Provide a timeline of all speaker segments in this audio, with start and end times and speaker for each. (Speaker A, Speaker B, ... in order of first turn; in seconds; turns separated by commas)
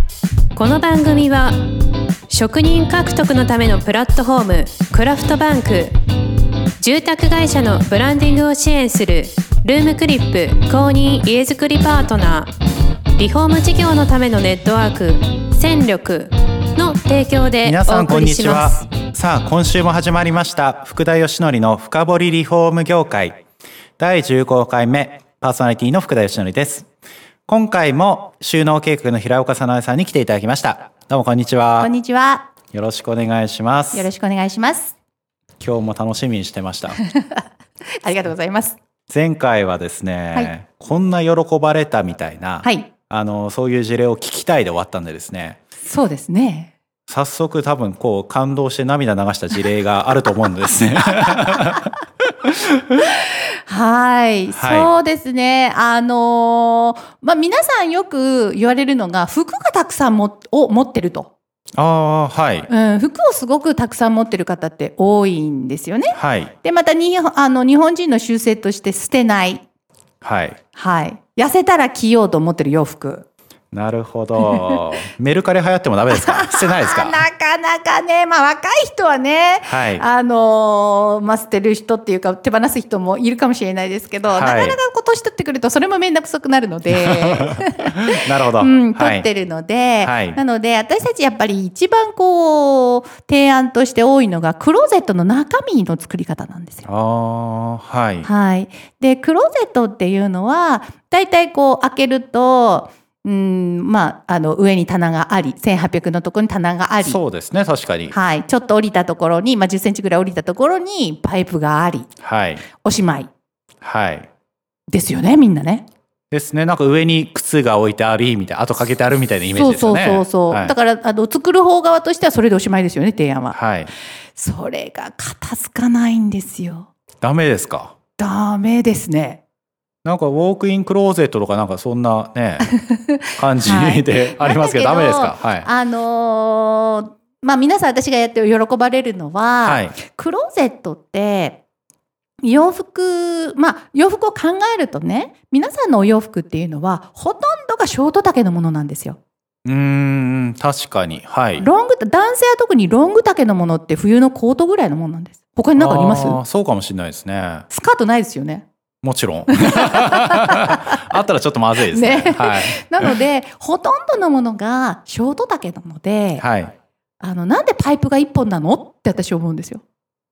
Speaker A: 0.5-1.6, Speaker A: 2.3-6.0, Speaker A: 6.8-12.5, Speaker A: 13.2-18.9, Speaker B: 17.6-23.4, Speaker B: 24.0-26.9, Speaker B: 27.5-31.9, Speaker C: 31.8-32.5, Speaker B: 32.7-34.1, Speaker C: 33.9-34.9, Speaker B: 35.6-37.0, Speaker C: 37.0-37.4, Speaker C: 38.0-38.8, Speaker B: 39.1-45.6, Speaker C: 42.6-42.9, Speaker C: 45.8-46.7, Speaker B: 47.1-51.9, Speaker C: 53.3-61.3, Speaker B: 54.5-54.9, Speaker B: 61.7-62.7, Speaker C: 62.7-69.6, Speaker B: 66.1-66.5, Speaker B: 70.2-70.6, Speaker C: 70.7-73.2, Speaker B: 73.7-77.2, Speaker C: 74.4-74.8, Speaker C: 76.1-96.9, Speaker B: 79.6-80.0, Speaker B: 84.3-84.8, Speaker B: 86.9-89.2, Speaker B: 90.0-90.4, Speaker B: 96.8-98.3, Speaker C: 98.2-107.2, Speaker B: 107.0-108.2, Speaker C: 108.1-112.1, Speaker B: 112.2-112.6, Speaker C: 112.7-113.3, Speaker B: 113.8-114.3, Speaker C: 114.9-115.9, Speaker B: 116.3-120.7, Speaker C: 119.5-123.5, Speaker B: 123.5-123.9, Speaker C: 124.3-126.9, Speaker B: 127.2-127.9, Speaker C: 128.2-129.4, Speaker B: 130.0-132.7, Speaker C: 132.7-141.6, Speaker B: 133.3-135.7, Speaker B: 139.6-140.0, Speaker C: 142.4-149.2, Speaker B: 149.6-151.7, Speaker C: 151.6-156.4, Speaker B: 155.8-157.7, Speaker C: 157.7-158.7, Speaker B: 159.0-163.1, Speaker C: 159.6-161.0, Speaker C: 161.9-166.4, Speaker B: 166.4-166.7, Speaker C: 167.2-169.8